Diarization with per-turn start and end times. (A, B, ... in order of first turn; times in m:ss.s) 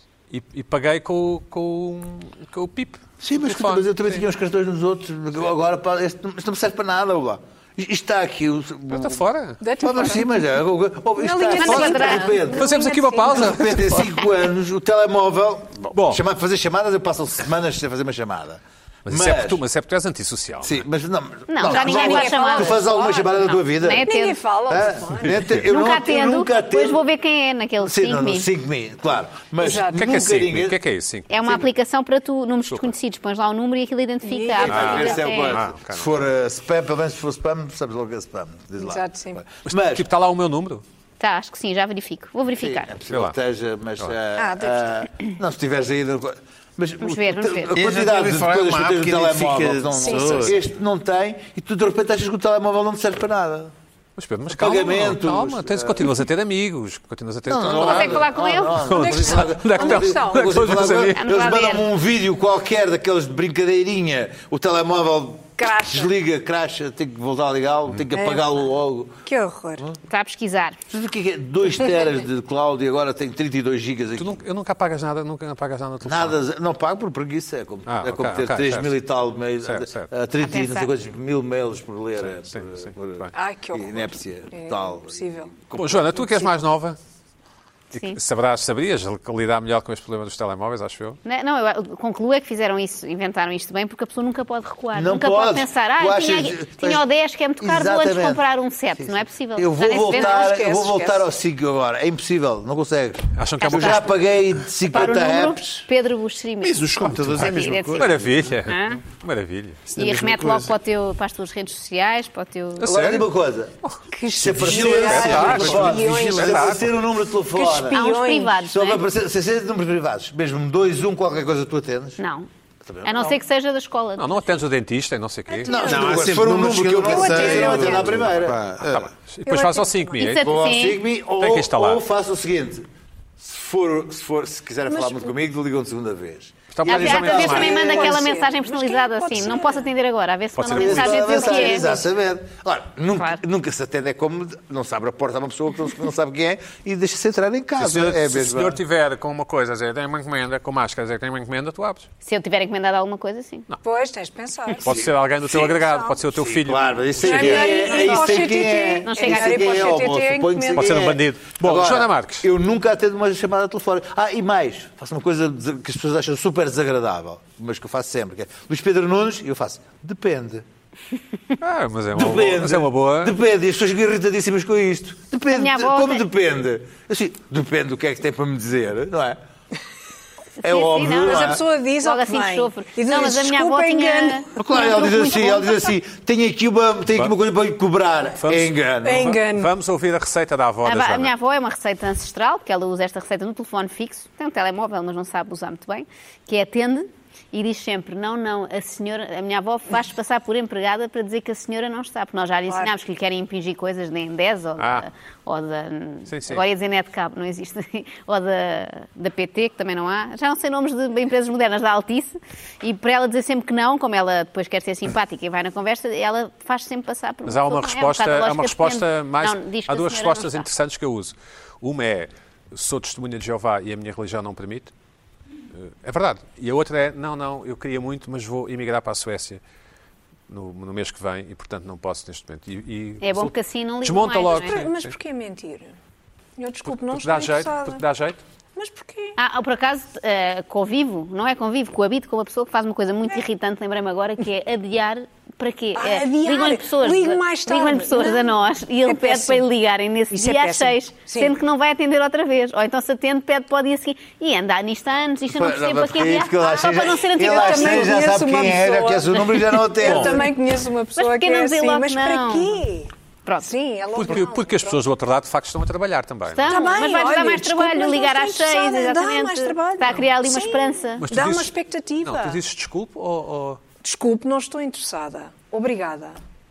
0:00.3-0:04.2 A
0:03.2-0:09.2 B
0:08.9-0:09.6 A
0:09.6-0:10.3 C
0:09.8-0:12.8 B
0:11.2-0:13.8 C
0:11.5-0:12.4 D
0:11.6-0:14.0 A
0:13.4-0:19.6 B
0:15.9-0:16.2 A
0:19.1-0:20.8 A
0:20.6-0:24.1 B
0:21.5-0:22.8 D
0:21.7-0:25.6 C
0:23.4-0:24.4 D
0:24.7-0:27.0 B
0:25.2-0:25.6 A
0:25.7-0:28.5 D
0:27.8-0:30.8 B
0:29.6-0:30.1 C
0:29.9-0:31.3 A
0:31.3-0:35.6 D
0:34.2-0:35.3 C
0:34.6-0:40.1 B
0:34.7-0:36.1 A
0:38.8-0:39.4 C
0:39.7-0:40.8 A
0:41.2-0:42.9 D
0:42.6-0:53.7 B
0:43.1-0:43.4 A
0:44.4-0:44.9 C
0:47.0-0:47.8 D
0:47.7-0:50.6 E
0:50.0-0:50.5 C
0:54.2-1:01.2 A
0:54.5-0:56.1 B
0:57.5-1:09.2 B
0:57.6-0:59.3 D
0:58.9-1:00.7 C
1:01.2-1:01.9 D
1:05.6-1:06.1 C
1:08.1-1:08.6 C
1:09.2-1:09.8 C
1:10.1-1:10.8 D
1:10.9-1:14.4 B
1:14.2-1:16.4 A
1:16.0-1:26.5 B
1:17.9-1:19.0 A
1:19.6-1:20.1 A
1:20.4-1:20.9 D
1:22.5-1:23.3 A
1:23.3-1:25.5 C
1:25.8-1:27.0 A
1:27.9-1:31.2 A
1:31.2-1:40.5 D
1:35.0-1:37.0 B
1:37.6-1:38.4 B
1:39.0-1:45.8 B
1:40.1-1:41.3 C
1:43.4-1:44.1 A
1:43.6-1:44.2 D
1:44.8-1:48.2 D
1:46.6-1:48.5 E
1:47.4-1:49.9 A
1:48.7-1:49.0 D
1:49.9-1:50.8 E
1:50.0-1:52.9 D
1:52.8-1:53.3 A
1:52.8-1:53.7 B
1:54.1-1:56.9 C
1:54.3-1:58.0 B
1:54.9-1:56.9 A
1:55.3-1:56.2 E
1:57.6-1:58.6 C
1:57.7-1:59.0 D
1:58.7-2:02.2 B
2:02.2-2:02.5 D
2:02.8-2:03.4 B
2:03.0-2:04.3 D
2:04.2-2:05.7 A
2:05.5-2:06.2 C
2:05.7-2:08.6 B
2:05.8-2:09.1 E
2:07.0-2:08.3 C
2:08.9-2:10.5 A
2:09.5-2:10.3 C
2:10.2-2:11.0 D
2:10.4-2:12.9 B
2:11.4-2:12.0 A
2:13.4-2:18.2 B
2:14.9-2:15.3 C
2:16.7-2:17.9 A
2:16.8-2:22.0 D
2:17.1-2:19.9 C
2:20.6-2:21.5 A
2:20.7-2:28.8 B
2:21.5-2:22.0 C
2:23.2-2:23.4 D
2:27.8-2:32.1 A
2:32.2-2:33.7 D
2:33.8-2:35.1 C
2:34.8-2:37.7 A
2:34.9-2:35.7 B
2:36.4-2:50.6 B
2:37.2-2:41.1 C
2:37.6-2:38.3 D
2:39.0-2:40.0 D
2:40.7-2:42.5 A
2:51.6-2:53.4 A
2:52.1-2:59.4 B
2:55.5-2:56.3 D
3:00.6-3:01.6 B
3:00.6-3:05.8 D
3:01.2-3:04.5 C
3:04.6-3:09.4 B
3:08.4-3:11.3 A
3:09.0-3:09.7 C
3:10.8-3:40.7 D
3:24.8-3:25.1 A
3:26.3-3:26.6 A
3:37.5-3:44.9 A
3:45.8-3:49.6 A
3:50.5-3:55.2 A
3:53.2-3:54.8 D
3:54.5-3:56.0 C
3:56.6-3:58.0 C
3:56.9-3:58.4 A
3:58.8-3:59.4 C
3:59.4-4:18.2 D
4:06.0-4:09.6 C
4:10.3-4:11.6 C
4:15.5-4:20.5 B
4:17.4-4:23.1 C
4:20.0-4:20.4 A
4:21.2-4:22.8 D
4:23.5-4:23.7 D
4:23.6-4:25.0 C
4:24.2-4:26.8 A
4:26.5-4:31.2 D
4:26.7-4:32.6 C
4:31.2-4:33.8 A
4:34.0-4:36.4 C